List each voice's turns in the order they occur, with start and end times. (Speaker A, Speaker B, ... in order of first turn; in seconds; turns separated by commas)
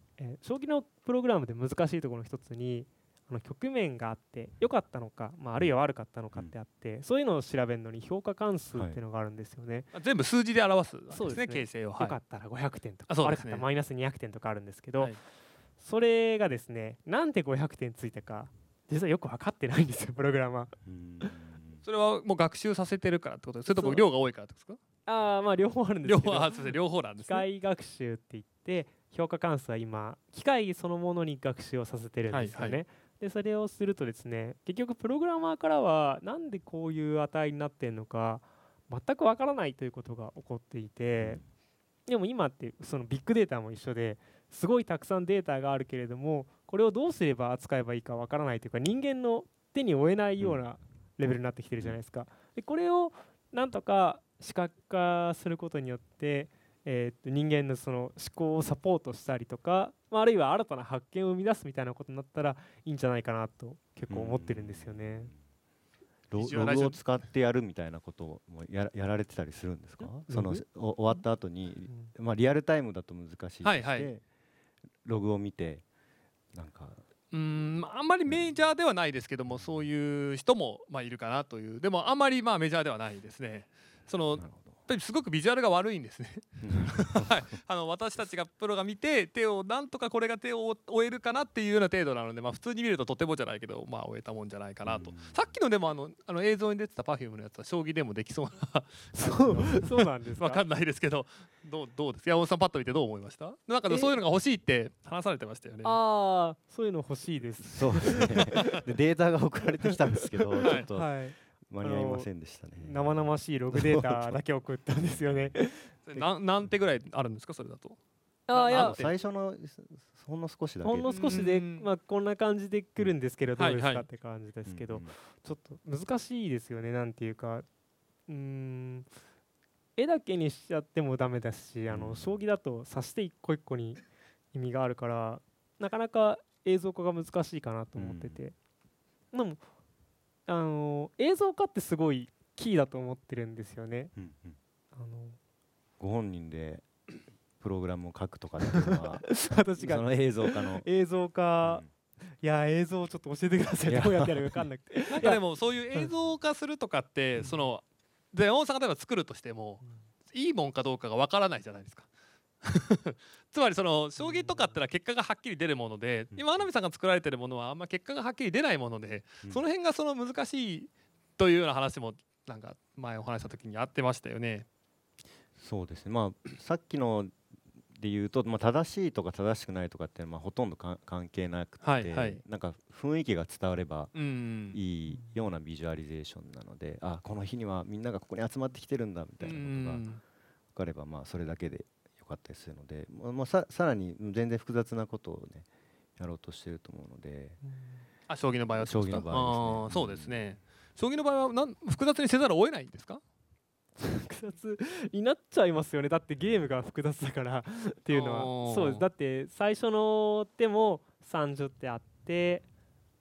Speaker A: 0.2-9.9, Speaker B: 9.9-12.1, Speaker A: 11.1-15.1, Speaker B: 13.1-13.7, Speaker A: 15.8-21.3, Speaker C: 20.8-21.8, Speaker B: 21.8-24.8, Speaker A: 23.8-24.0, Speaker A: 25.1-41.4, Speaker B: 26.0-27.4, Speaker B: 32.3-32.8, Speaker C: 41.2-41.4, Speaker A: 42.0-65.3, Speaker C: 64.1-65.4, Speaker C: 66.3-74.2, Speaker B: 66.3-67.1, Speaker A: 70.2-71.2, Speaker B: 73.6-74.1, Speaker C: 75.0-75.8, Speaker C: 76.5-77.0, Speaker B: 77.3-99.8, Speaker C: 79.5-79.8, Speaker C: 84.3-84.8, Speaker C: 86.6-87.4, Speaker C: 94.8-95.5, Speaker A: 99.1-100.6, Speaker B: 100.4-106.0, Speaker A: 103.9-104.1, Speaker A: 105.8-108.7, Speaker C: 107.6-114.4, Speaker A: 110.6-115.8, Speaker C: 114.9-115.6, Speaker B: 116.1-118.0, Speaker A: 118.5-119.0, Speaker B: 118.5-119.1, Speaker C: 118.7-121.4, Speaker A: 120.8-127.7, Speaker B: 121.1-121.9, Speaker B: 123.6-124.0, Speaker C: 124.7-125.1, Speaker A: 128.3-129.1, Speaker A: 130.0-134.0, Speaker C: 131.9-132.4, Speaker A: 134.5-138.5, Speaker C: 137.9-138.4, Speaker A: 139.3-139.6, Speaker A: 140.5-144.1, Speaker C: 144.2-144.6, Speaker A: 144.9-145.4, Speaker C: 146.0-146.9, Speaker C: 147.6-150.9, Speaker A: 148.7-155.4, Speaker C: 151.6-151.9, Speaker C: 153.9-154.6, Speaker B: 155.1-162.1, Speaker B: 162.6-174.7, Speaker A: 164.2-164.7, Speaker C: 166.3-166.6, Speaker C: 175.6-177.3, Speaker C: 177.9-184.2, Speaker B: 181.8-182.4, Speaker B: 184.1-184.8, Speaker C: 184.7-190.0, Speaker A: 185.1-185.4, Speaker B: 189.4-190.2, Speaker C: 190.7-197.6, Speaker A: 197.6-198.0, Speaker B: 198.3-203.2, Speaker C: 198.8-200.5, Speaker A: 204.0-212.6, Speaker B: 208.1-209.0